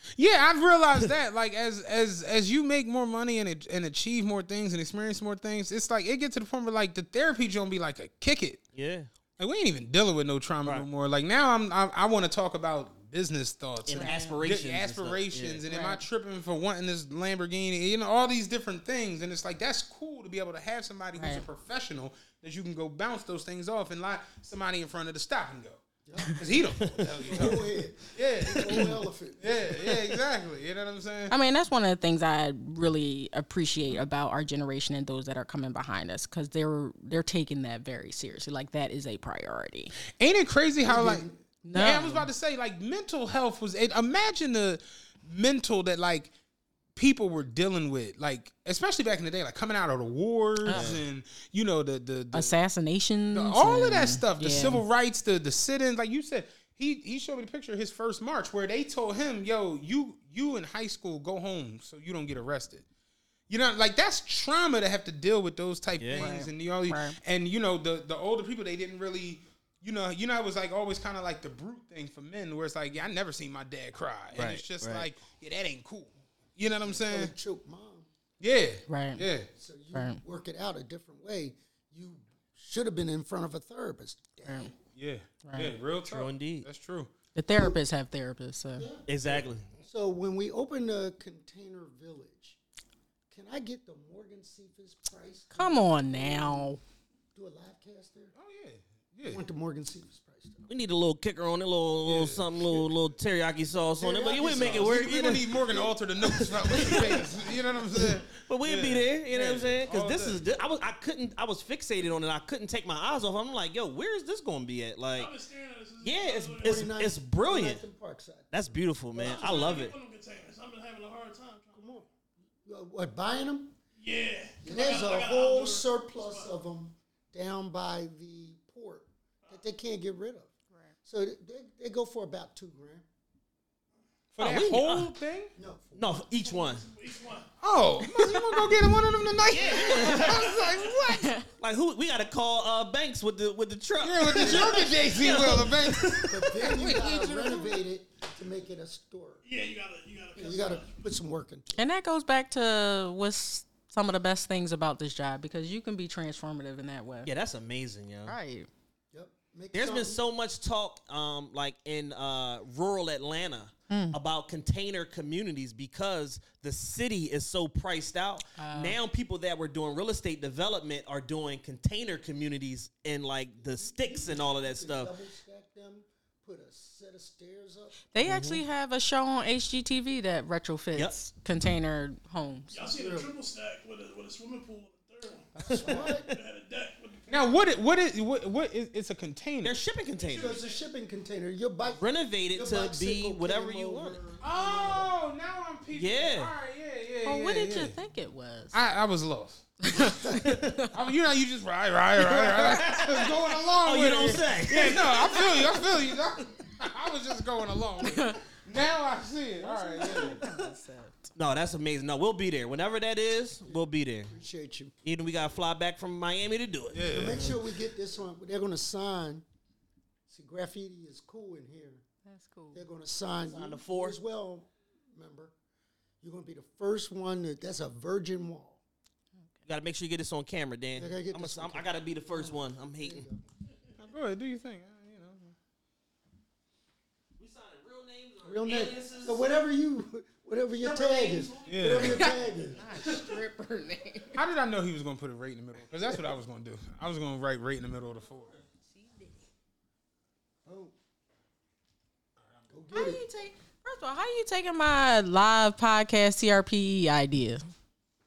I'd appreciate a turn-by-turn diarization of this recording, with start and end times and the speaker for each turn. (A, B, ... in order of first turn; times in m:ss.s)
0:00.2-0:08.6 A
0:08.7-0:09.1 B
0:09.4-0:25.8 A
0:13.8-0:15.6 B
0:14.0-0:14.3 C
0:15.7-0:16.0 C
0:21.2-0:21.4 C
0:26.0-0:26.4 D
0:26.3-0:27.6 A
0:26.8-0:27.6 B
0:27.3-0:29.7 D
0:28.1-0:31.3 A
0:28.4-0:28.9 B
0:31.3-0:39.9 C
0:40.2-0:46.3 A
0:40.8-0:41.4 D
0:41.6-0:42.3 C
0:46.9-0:52.5 A
0:50.7-0:51.0 B
0:52.3-0:54.8 C
0:53.3-1:02.8 A
1:03.5-1:17.3 A
1:06.0-1:06.3 B
1:06.2-1:07.2 C
1:14.3-1:15.1 B
1:16.8-1:18.1 D
1:18.4-1:19.5 A
1:18.9-1:19.2 C
1:19.5-1:24.7 D
1:19.9-1:20.2 C
1:24.4-1:24.7 C
1:24.9-1:27.1 A
1:25.4-1:25.7 C
1:26.0-1:26.6 B
1:27.3-1:28.9 C
1:28.7-1:29.0 D
1:29.1-1:29.6 B
1:29.8-1:32.6 D
1:33.3-1:36.8 D
1:35.5-1:36.8 C
1:37.3-1:38.3 D
1:38.3-1:39.4 A
1:39.2-1:40.7 D
1:40.7-1:45.8 B
1:42.0-1:42.8 A
1:44.0-1:48.0 D
1:44.3-1:50.4 A
1:46.3-1:46.9 B
1:48.5-1:55.3 B
1:55.1-1:57.0 E
1:56.0-1:57.8 B
1:56.6-1:59.8 D
1:58.5-2:00.0 B
1:59.1-2:02.0 E
2:01.7-2:02.1 D
2:02.6-2:03.8 D
2:04.0-2:06.5 E
2:04.6-2:10.5 D
2:11.0-2:13.0 D
2:14.3-2:15.5 A
2:14.4-2:15.0 B
2:15.5-2:16.3 D
2:16.0-2:16.8 B
2:16.3-2:17.5 E
2:17.6-2:21.3 A
2:19.5-2:20.5 B
2:19.6-2:21.0 E
2:21.6-2:26.6 B
2:24.0-2:27.8 A
2:24.3-2:24.8 D
2:26.2-2:29.4 D
2:29.4-2:30.9 E
2:30.4-2:31.8 D
2:31.8-2:37.3 C
2:37.2-2:38.3 B
2:38.2-2:38.7 C
2:39.1-2:40.2 D
2:39.7-2:55.1 B
2:43.9-2:44.2 C
2:48.6-2:49.0 C
2:53.6-2:58.0 D
2:58.1-3:02.8 C
2:58.2-2:58.6 B
3:02.7-3:07.5 E
3:02.8-3:03.3 D
3:05.6-3:06.3 D
3:05.7-3:06.1 B
3:07.3-3:09.8 A
3:09.6-3:10.6 B
3:10.2-3:10.8 E
3:10.2-3:14.9 D
3:12.0-3:14.2 B
3:14.4-3:17.9 A
3:15.9-3:16.5 B
3:17.2-3:18.7 C
3:18.7-3:20.0 A
3:19.8-3:20.8 C
3:20.0-3:20.4 D
3:20.4-3:20.9 B
3:20.9-3:30.4 A
3:22.2-3:25.2 B
3:29.6-3:31.3 C
3:31.4-3:34.3 B
3:34.3-3:34.9 D
3:35.0-3:37.6 B
3:36.9-3:37.6 A
3:37.1-3:39.4 D
3:40.3-3:42.0 D
3:42.2-3:42.8 C
3:42.7-3:45.5 D
3:43.4-3:44.2 B
3:46.2-3:48.8 D
3:49.7-3:53.2 B
3:50.9-3:53.4 D
3:54.0-3:55.5 A
3:57.4-3:59.5 B
3:58.4-4:03.1 D
4:00.8-4:02.2 B
4:00.9-4:01.8 E
4:01.7-4:02.3 A
4:02.8-4:04.4 C
4:03.0-4:03.4 E
4:04.3-4:08.5 A
4:10.6-4:10.9 D
4:12.7-4:13.2 D
4:12.9-4:17.6 C